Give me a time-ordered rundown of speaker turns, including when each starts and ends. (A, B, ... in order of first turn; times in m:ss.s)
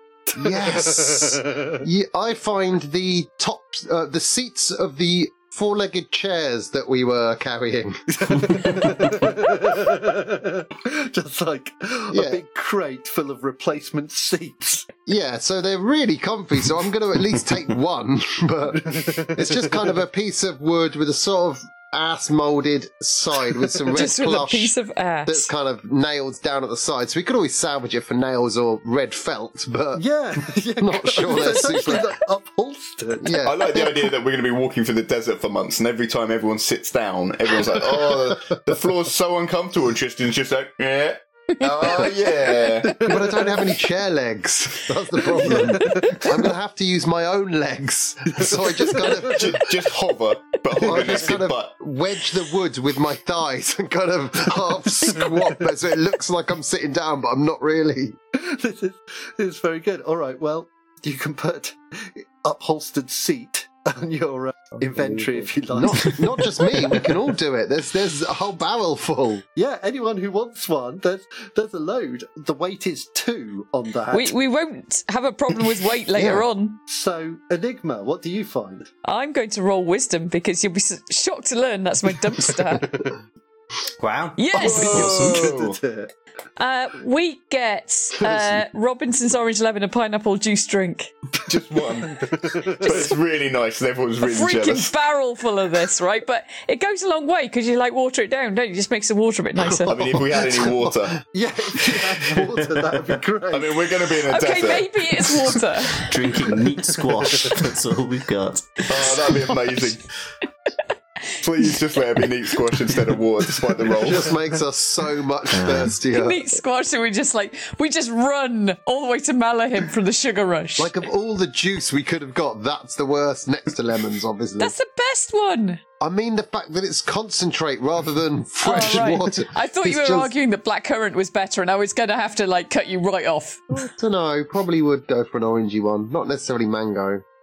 0:00.3-0:01.7 A
0:00.4-0:09.1 B
0:08.2-0:14.9 A
0:12.1-0:12.4 B
0:15.1-0:24.7 B
0:18.9-0:19.7 A
0:23.9-0:25.5 C
0:25.3-0:30.0 B
0:30.0-0:33.5 A
0:30.8-0:32.1 B
0:33.2-0:33.7 B
0:33.4-0:43.2 D
0:42.8-0:43.8 A
0:42.9-0:49.8 B
0:45.4-0:46.5 A
0:48.4-0:49.6 A
0:49.2-0:51.8 D
0:50.8-0:58.2 B
0:50.8-0:51.4 A
0:55.1-0:55.5 A
0:58.3-1:06.9 A
1:04.8-1:09.4 B
1:09.6-1:14.3 A
1:14.1-1:16.8 C
1:16.1-1:16.5 B
1:16.9-1:18.9 A
1:19.0-1:23.0 C
1:24.0-1:25.5 E
1:24.4-1:25.2 C
1:24.5-1:26.1 A
1:24.6-1:25.8 D
1:26.6-1:31.1 C
1:31.5-1:34.9 D
1:32.4-1:33.0 A
1:34.2-1:39.9 C
1:39.9-1:41.0 B
1:39.9-1:41.2 D
1:41.3-1:43.9 A
1:43.5-1:44.9 D
1:44.3-1:46.1 C
1:46.0-1:49.3 E
1:48.9-1:50.0 D
1:51.4-1:54.3 D
1:54.0-1:56.5 B
1:55.5-1:56.0 E
1:56.1-2:01.0 C
2:00.8-2:04.7 B
2:04.6-2:05.8 C
2:06.0-2:10.3 B
2:08.6-2:13.7 C
2:13.7-2:17.2 B